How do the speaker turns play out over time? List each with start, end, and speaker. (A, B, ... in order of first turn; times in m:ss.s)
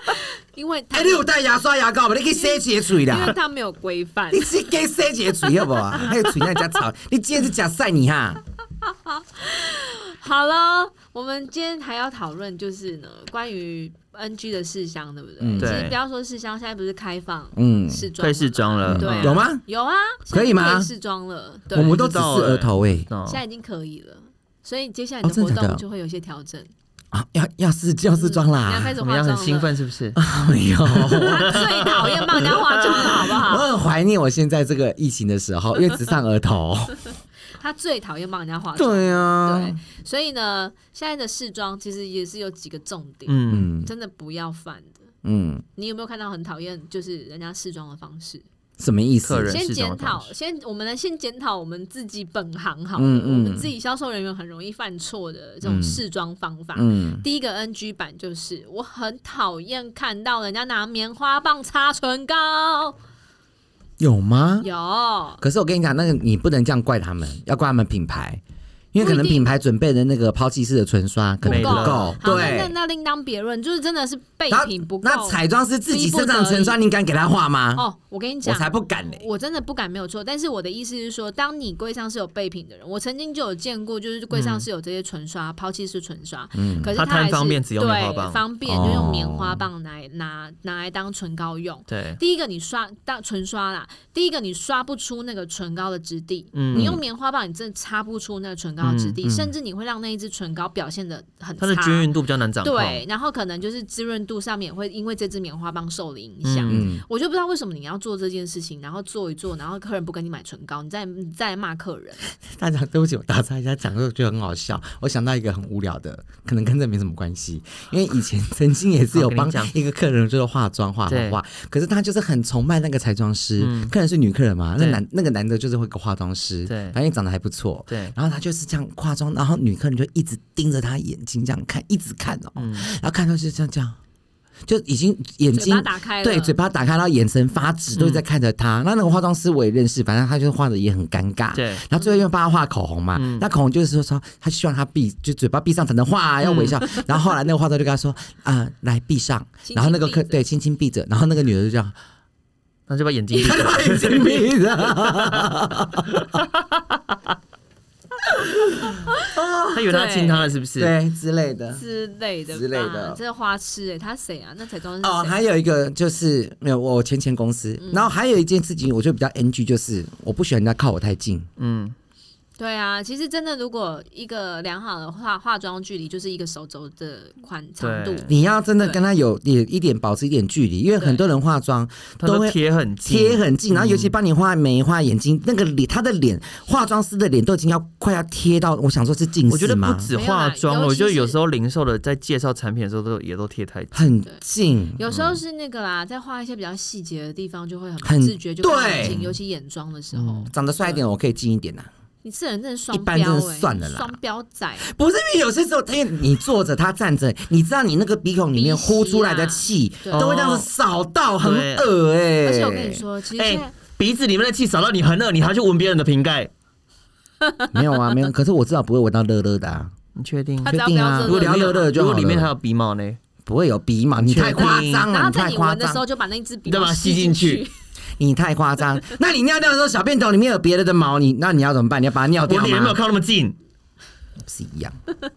0:00.5-0:01.3 A
0:00.9-0:03.3 B
0:02.4-0:04.5 A
0:04.3-0:08.4 B
0:08.8-0:22.2 A
0:15.4-0:15.9 B
0:15.6-0:16.0 C
0:17.5-0:18.1 B
0:18.2-0:19.4 C
0:18.8-0:19.6 B
0:20.3-0:20.9 B
0:21.7-0:23.1 B
0:21.7-0:23.4 C
0:23.2-0:26.7 A
0:25.2-0:25.8 B
0:27.1-0:29.0 B
0:28.1-0:29.7 A
0:29.0-0:30.2 C
0:30.2-0:31.9 B
0:31.0-0:33.2 C
0:31.2-0:33.7 A
0:32.9-0:37.1 B
0:37.6-0:45.1 A
0:38.8-0:39.8 B
0:43.3-0:43.7 C
0:43.5-0:43.9 B
0:45.2-0:45.6 B
0:45.8-0:48.4 A
0:48.8-0:49.6 B
0:49.2-0:50.3 C
0:49.5-1:03.0 A
0:53.0-0:53.7 B
0:55.6-0:56.0 B
0:56.7-0:57.2 B
1:04.0-1:04.7 B
1:04.6-1:05.4 A
1:05.4-1:08.4 B
1:08.9-1:12.7 B
1:09.0-1:09.5 A
1:11.4-1:12.2 C
1:11.4-1:16.8 A
1:14.5-1:17.8 B
1:17.7-1:42.1 A
1:18.4-1:19.2 B
1:24.3-1:24.7 C
1:26.5-1:26.9 B
1:27.0-1:28.4 C
1:28.6-1:29.6 B
1:31.9-1:32.2 C
1:36.5-1:37.0 C
1:36.7-1:37.0 B
1:38.8-1:39.2 C
1:39.2-1:39.5 B
1:41.6-1:43.0 C
1:42.6-1:52.2 A
1:46.4-1:46.9 C
1:46.7-1:47.0 B
1:52.5-2:14.0 B
1:59.1-1:59.7 C
2:01.1-2:01.4 C
2:03.6-2:03.9 C
2:04.8-2:05.0 C
2:06.7-2:07.0 C
2:07.9-2:08.1 C
2:12.6-2:12.9 C
2:14.6-2:31.9 B
2:15.5-2:16.6 A
2:17.9-2:18.2 C
2:21.5-2:21.8 C
2:23.2-2:23.4 C
2:26.4-2:26.8 C
2:29.6-2:30.4 A
2:32.9-2:36.5 C
2:33.4-2:36.2 B
2:33.4-2:33.6 A
2:38.3-2:39.9 B
2:39.7-2:40.9 C
2:39.9-2:40.6 A
2:40.8-2:41.8 B
2:41.7-2:45.4 A
2:42.5-2:43.2 B
2:45.0-2:51.5 B
2:47.8-2:48.1 A
2:51.6-2:51.9 C
2:52.6-2:59.0 A
2:57.8-2:58.3 C
2:58.3-3:10.1 B
3:01.0-3:01.3 A
3:02.2-3:04.1 C
3:09.5-3:14.1 C
3:10.1-3:11.4 A
3:13.9-3:15.0 B
3:15.0-3:21.0 A
3:18.0-3:19.2 B
3:19.0-3:19.3 C
3:20.5-3:21.9 B
3:22.2-3:24.9 A
3:22.9-3:24.2 B
3:24.8-3:33.0 B
3:28.5-3:30.3 A
3:30.1-3:30.7 C
3:31.4-3:31.9 C
3:32.4-3:33.7 A
3:33.4-3:36.5 C
3:37.4-3:37.7 A
3:37.7-3:39.9 B
3:40.2-3:43.2 C
3:40.6-3:41.9 A
3:40.6-3:42.5 B
3:43.4-3:46.0 B
3:44.2-3:45.1 C
3:44.6-3:47.7 A
3:46.6-3:47.6 C
3:48.2-3:53.0 B
3:52.4-3:53.6 C
3:54.4-3:55.0 B